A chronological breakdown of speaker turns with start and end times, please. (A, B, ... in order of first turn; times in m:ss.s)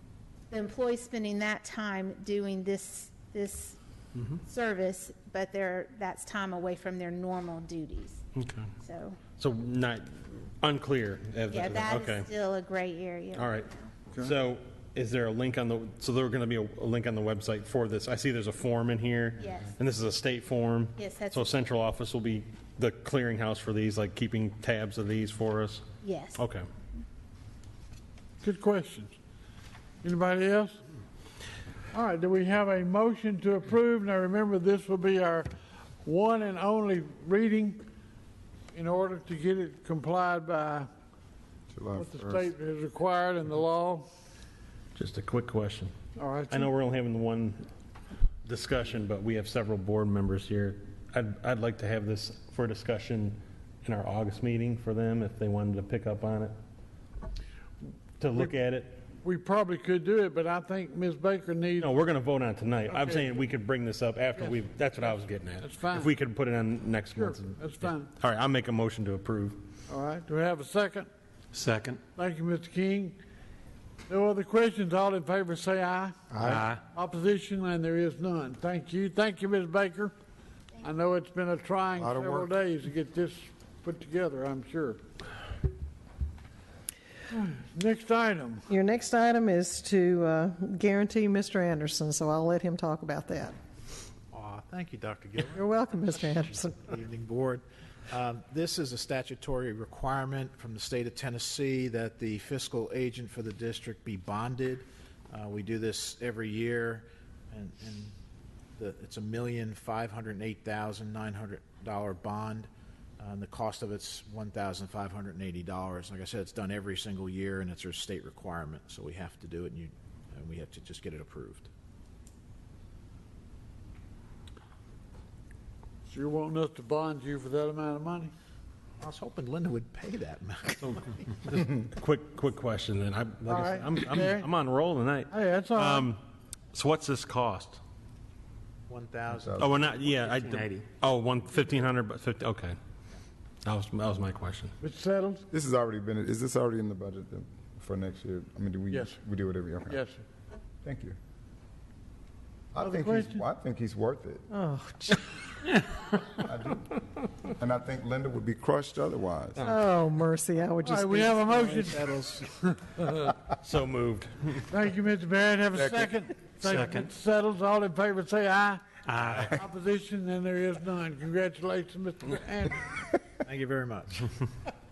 0:00.5-0:03.8 A
0:04.4-0:08.2 A
0:08.4-0:08.7 B
0:08.8-0:09.2 A
0:09.4-0:12.3 B
0:11.5-0:13.9 A
0:13.4-0:25.9 B
0:19.4-0:19.7 A
0:21.0-0:21.6 A
0:26.0-0:26.4 A
0:26.4-0:26.6 B
0:28.4-0:29.1 C
0:30.0-0:30.8 C
0:31.9-0:35.5 C
0:36.0-0:37.8 C
0:38.7-0:40.9 C
0:41.7-0:42.5 D
0:42.0-0:44.1 C
0:45.0-0:45.9 B
0:46.2-0:46.7 C
0:46.5-0:47.7 B
0:48.4-0:56.5 B
0:58.2-0:59.0 B
0:59.2-1:01.9 C
1:01.8-1:09.7 B
1:02.9-1:03.4 C
1:04.4-1:06.1 C
1:07.2-1:08.1 C
1:09.9-1:11.1 C
1:11.5-1:12.0 E
1:12.2-1:13.2 C
1:14.1-1:20.1 C
1:16.3-1:16.7 D
1:16.4-1:16.8 E
1:20.8-1:25.0 C
1:22.0-1:22.5 D
1:27.3-1:28.7 C
1:28.7-1:33.6 F
1:34.3-1:35.6 G
1:35.5-1:36.9 F
1:36.2-1:48.2 G
1:48.8-2:01.7 G
2:06.1-2:08.3 C
2:09.0-2:11.6 G
2:11.5-2:16.2 B
2:13.5-2:14.5 C
2:15.3-2:16.1 C
2:16.7-2:17.8 B
2:18.9-2:20.6 G
2:19.3-2:19.7 D
2:19.6-2:22.8 B
2:20.5-2:20.8 E
2:23.6-2:24.7 B
2:24.8-2:25.5 C
2:25.5-2:30.0 D
2:28.9-2:29.2 C
2:29.9-2:30.2 C
2:30.8-2:31.2 D
2:32.7-2:34.5 D
2:32.8-2:33.4 C
2:34.5-2:35.2 F
2:36.3-2:36.9 D
2:37.5-2:39.7 D
2:39.6-2:41.8 F
2:40.8-2:43.3 C
2:43.5-2:44.6 B
2:44.7-2:48.8 C
2:46.6-2:47.1 E
2:49.1-2:49.5 E
2:49.5-2:53.1 C
2:53.4-2:54.3 G